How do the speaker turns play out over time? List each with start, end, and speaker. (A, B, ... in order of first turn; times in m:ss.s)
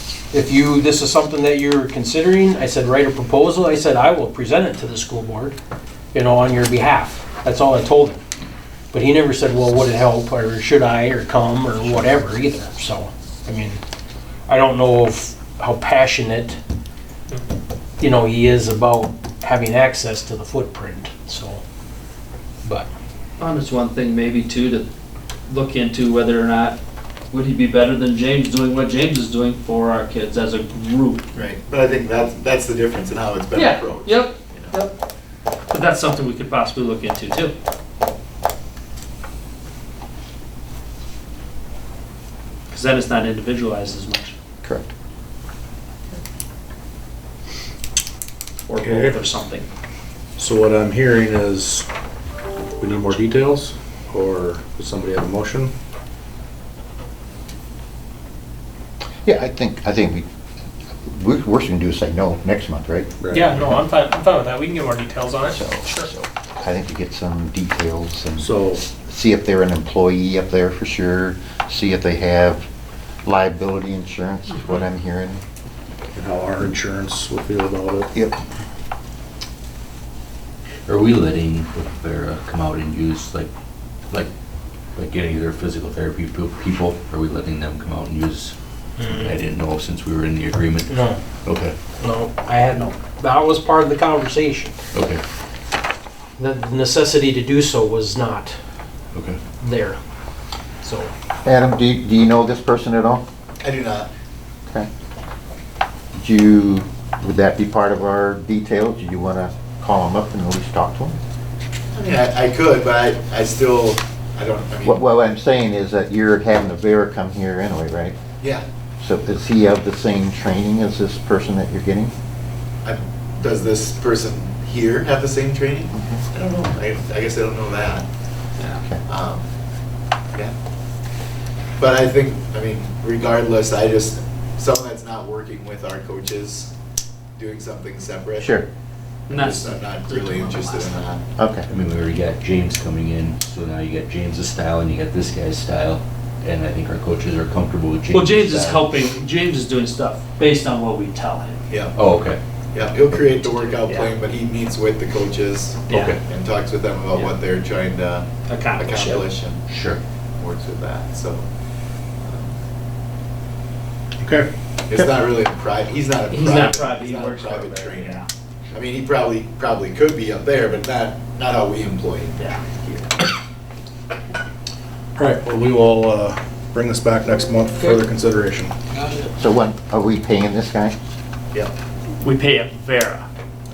0:00.3-0:05.6 A
0:06.1-0:08.2 A
0:08.9-0:13.8 A
0:14.5-0:16.6 A
0:18.0-0:21.6 A
0:23.4-0:24.9 B
0:25.5-0:26.8 B
0:27.3-0:31.2 B
0:31.4-0:34.8 C
0:33.5-0:34.9 B
0:35.7-0:37.5 B
0:42.7-0:44.3 B
0:44.6-0:44.9 D
0:48.7-0:49.7 B
0:48.8-0:49.2 E
0:50.4-0:51.9 E
0:52.8-0:55.7 E
0:59.2-1:00.3 D
1:01.0-1:03.1 D
1:03.2-1:03.8 E
1:03.3-1:06.0 F
1:05.5-1:12.7 D
1:08.4-1:08.8 E
1:13.2-1:15.4 D
1:16.1-1:18.1 E
1:18.1-1:18.4 D
1:20.9-1:23.5 G
1:25.0-1:30.9 G
1:29.0-1:29.3 A
1:30.9-1:31.2 A
1:31.4-1:31.8 G
1:32.0-1:34.8 A
1:34.9-1:35.2 G
1:36.4-1:38.6 A
1:39.1-1:39.4 G
1:39.6-1:40.0 A
1:40.8-1:41.1 A
1:41.4-1:43.2 D
1:43.6-1:44.1 C
1:46.2-1:51.2 D
1:51.9-1:55.0 C
1:54.8-1:58.2 D
1:59.0-2:02.1 D
2:02.8-2:08.1 C
2:05.9-2:06.2 D
2:09.1-2:09.5 C
2:11.8-2:16.7 C
2:17.4-2:18.6 C
2:18.4-2:18.7 D
2:19.3-2:21.0 B
2:19.3-2:21.2 C
2:21.4-2:21.7 D
2:21.7-2:28.9 G
2:28.1-2:31.6 B
2:31.7-2:32.0 C
2:31.9-2:32.4 G
2:32.7-2:39.6 C
2:33.5-2:34.2 B
2:35.9-2:36.2 G
2:35.9-2:36.2 B
2:38.5-2:39.3 B
2:39.7-2:40.0 G
2:40.4-2:41.5 C
2:42.2-2:42.6 C
2:44.2-2:44.5 E
2:44.9-2:52.4 C
2:46.3-2:48.3 B
2:52.4-2:53.0 B
2:55.2-2:58.8 E
2:58.9-2:59.3 A
2:59.4-3:01.0 D
3:02.2-3:03.3 B